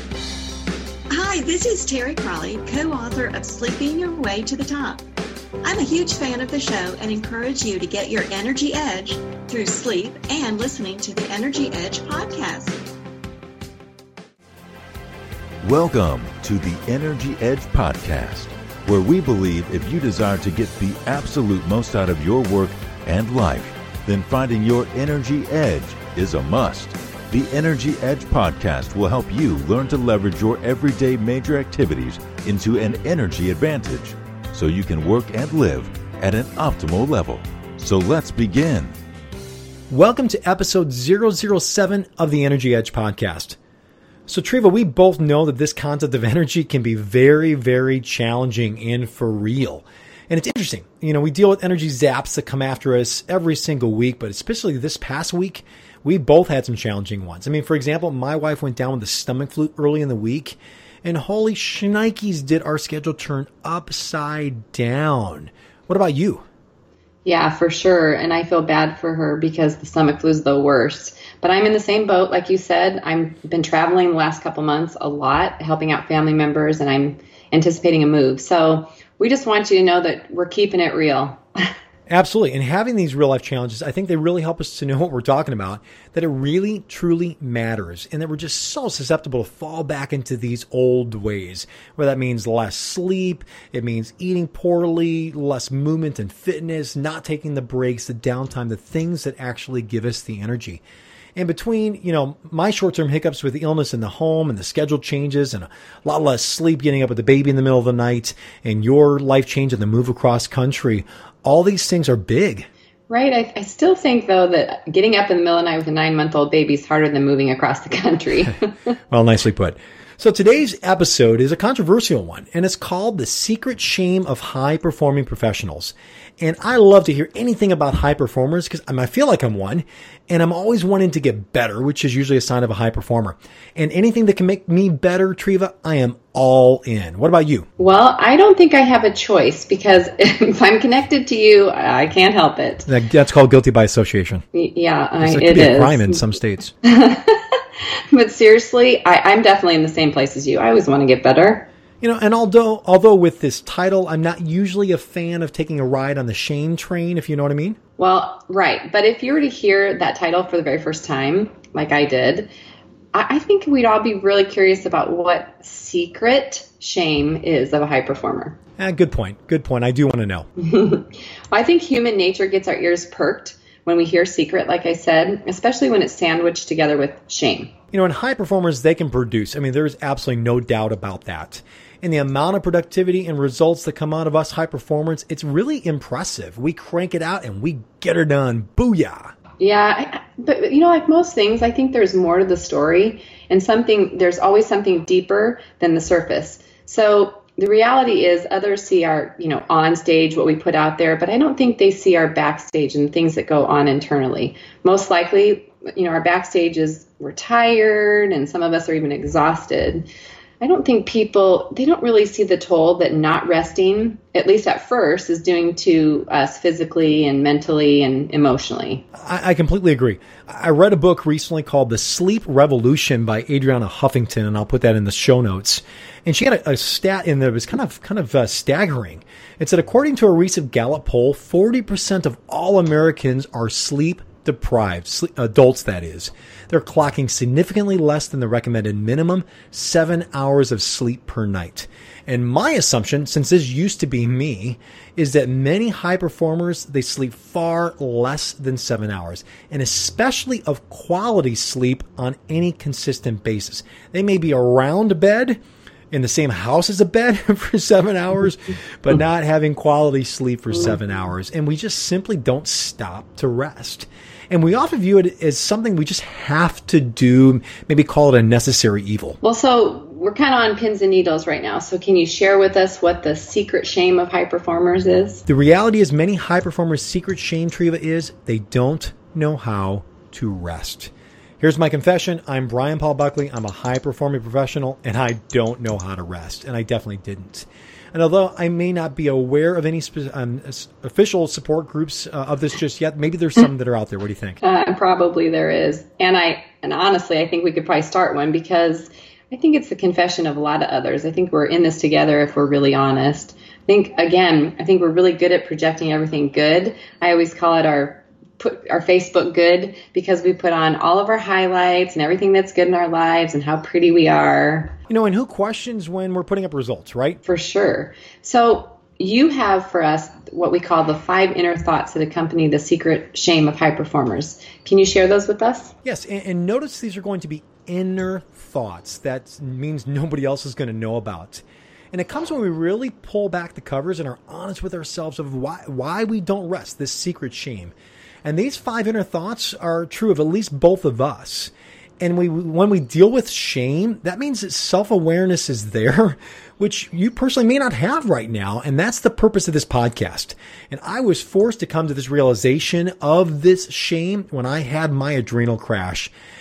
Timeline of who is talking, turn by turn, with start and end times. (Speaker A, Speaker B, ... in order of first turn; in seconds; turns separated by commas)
Speaker A: 1.1-5.0, Speaker A: 5.6-12.8, Speaker B: 15.6-39.0, Speaker C: 39.9-43.6, Speaker C: 44.3-66.5, Speaker D: 67.2-81.7, Speaker C: 82.1-100.8, Speaker C: 101.4-112.7, Speaker D: 113.1-118.9, Speaker C: 119.1-137.7, Speaker D: 137.8-142.9, Speaker C: 142.9-144.4, Speaker D: 144.5-146.3, Speaker C: 145.2-146.7, Speaker D: 146.8-147.6, Speaker D: 148.1-151.7, Speaker C: 152.0-157.8, Speaker D: 158.0-162.5, Speaker D: 163.1-168.6, Speaker C: 168.8-170.5, Speaker D: 170.6-177.7, Speaker C: 177.9-189.3, Speaker D: 189.6-210.1, Speaker D: 210.6-219.1, Speaker C: 219.2-255.6, Speaker C: 256.1-269.4, Speaker D: 269.4-275.4, Speaker C: 275.5-294.6, Speaker D: 294.6-315.0, Speaker C: 315.1-317.4, Speaker D: 317.4-325.9, Speaker C: 326.0-337.9, Speaker C: 338.4-356.3